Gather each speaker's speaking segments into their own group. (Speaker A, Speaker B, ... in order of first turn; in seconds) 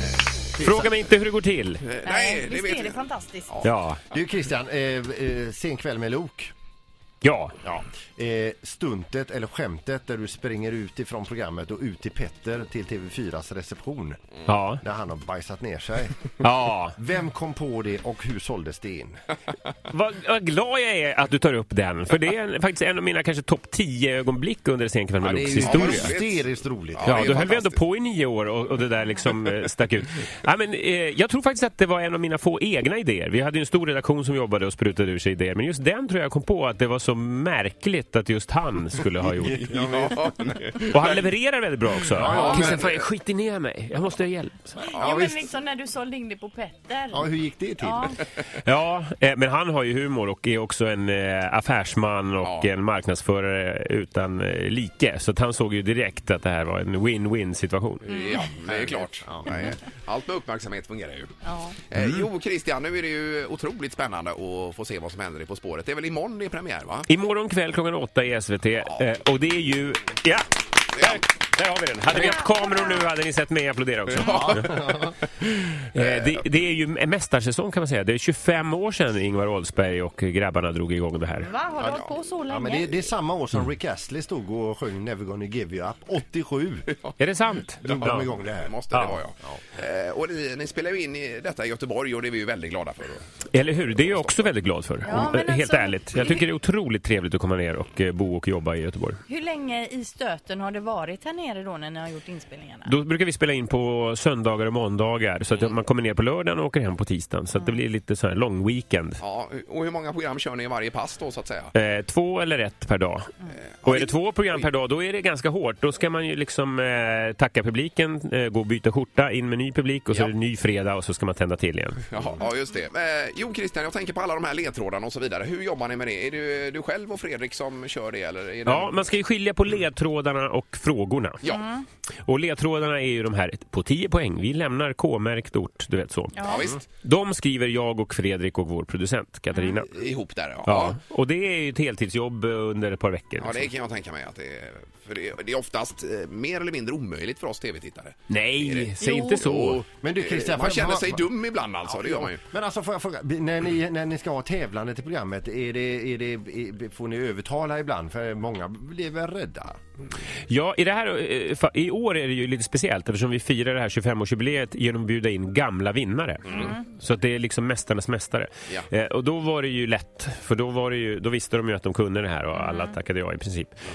Speaker A: 0.6-1.8, 3.6-4.0, 7.2-7.5, 14.5-14.8, 16.4-17.0, 19.9-26.1, 27.1-39.7, 40.9-44.8, 48.5-58.0, 67.1-74.7, 75.9-81.5, 87.2-88.3, 88.9-89.2, 93.5-99.2, 102.9-109.2, 111.7-113.3, 113.8-122.0, 128.7-131.4, 132.2-140.0, 140.7-143.7, 148.3-149.9, 160.5-173.8
Speaker B: 0.6-0.9, 1.8-3.7, 25.6-27.8, 39.5-41.2, 42.2-43.0, 52.4-52.7, 58.0-67.1, 70.9-71.2, 74.2-74.8, 76.0-76.4, 88.0-93.2, 109.2-111.7, 113.6-114.7, 122.1-129.1, 131.4-131.7, 136.4-136.8, 139.8-141.0, 143.4-152.4
Speaker C: 2.0-3.5, 44.9-48.2, 58.1-58.5, 61.4-61.8, 72.1-73.0, 81.4-83.1, 95.0-96.5, 99.3-102.9, 107.5-107.8, 131.5-131.8, 136.4-136.7, 149.0-149.4, 166.5-166.8, 172.6-172.9
Speaker D: 4.1-6.5, 7.6-14.3, 14.8-16.2, 17.0-19.2, 25.2-27.2, 39.2-40.6, 42.1-42.9, 45.0-45.5, 47.1-48.1, 58.8-59.5, 74.2-75.2, 81.8-86.9, 87.8-88.7, 150.0-151.3, 151.9-159.8